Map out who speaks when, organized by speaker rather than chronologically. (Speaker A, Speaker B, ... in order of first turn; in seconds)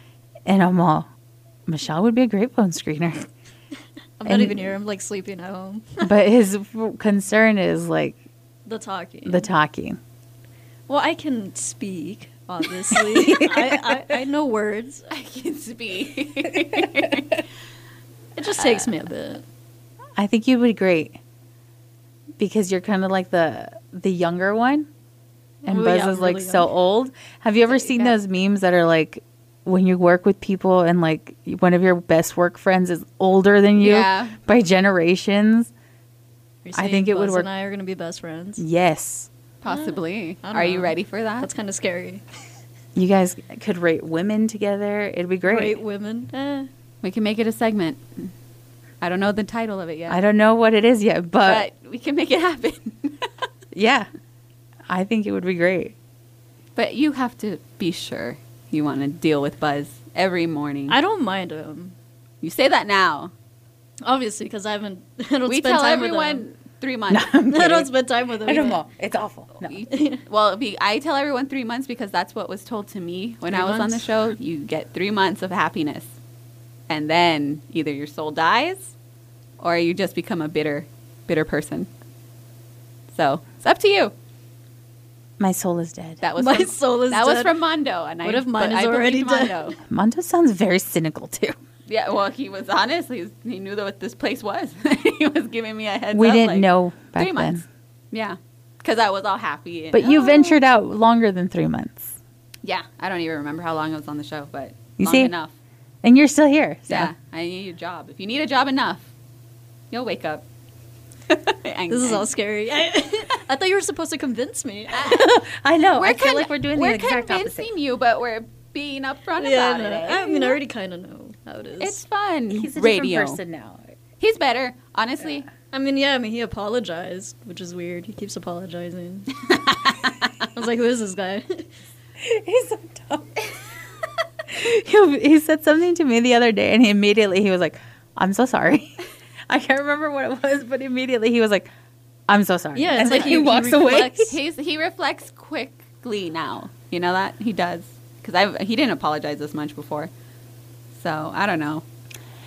Speaker A: 0.5-1.1, 1.7-3.3, 4.2-4.7, 6.0-8.2, 9.2-10.0, 12.9-14.2, 20.2-21.2, 22.4-24.9, 25.6-35.7, 36.8-37.5, 38.6-39.3, 43.0-45.8, 50.1-51.6, 53.7-54.1, 54.9-55.9, 67.1-67.9, 68.4-69.7, 85.4-86.2, 89.9-91.5, 96.1-97.6, 99.9-102.1, 105.0-105.3, 106.0-107.1, 115.0-117.7, 122.5-123.8, 132.2-133.4, 134.5-141.7, 142.3-144.3
Speaker B: 4.2-6.1, 8.7-9.5, 10.9-15.1, 18.4-19.4, 25.6-26.7, 36.6-38.6, 39.6-42.2, 45.4-46.7, 60.9-61.9, 64.0-66.4, 67.5-68.8, 69.9-70.2, 73.5-74.1, 86.3-87.5, 88.2-89.8, 111.9-115.3, 119.4-122.0, 125.7-129.3, 130.5-131.7, 142.7-144.3
Speaker C: 15.1-17.4, 18.6-18.9, 27.7-28.1, 33.8-34.3, 39.6-41.5, 47.0-48.3, 49.0-50.2, 51.4-53.3, 56.8-61.0, 62.4-63.3, 65.5-67.3, 69.6-76.1, 76.9-78.9, 79.6-81.9, 83.1-84.1, 86.2-89.8, 91.9-100.6, 102.6-105.5, 106.9-109.0, 109.9-110.4, 111.3-112.3, 114.9-115.3, 116.0-120.6, 121.8-123.4, 124.2-125.5, 129.4-130.3, 143.0-150.1, 150.9-151.8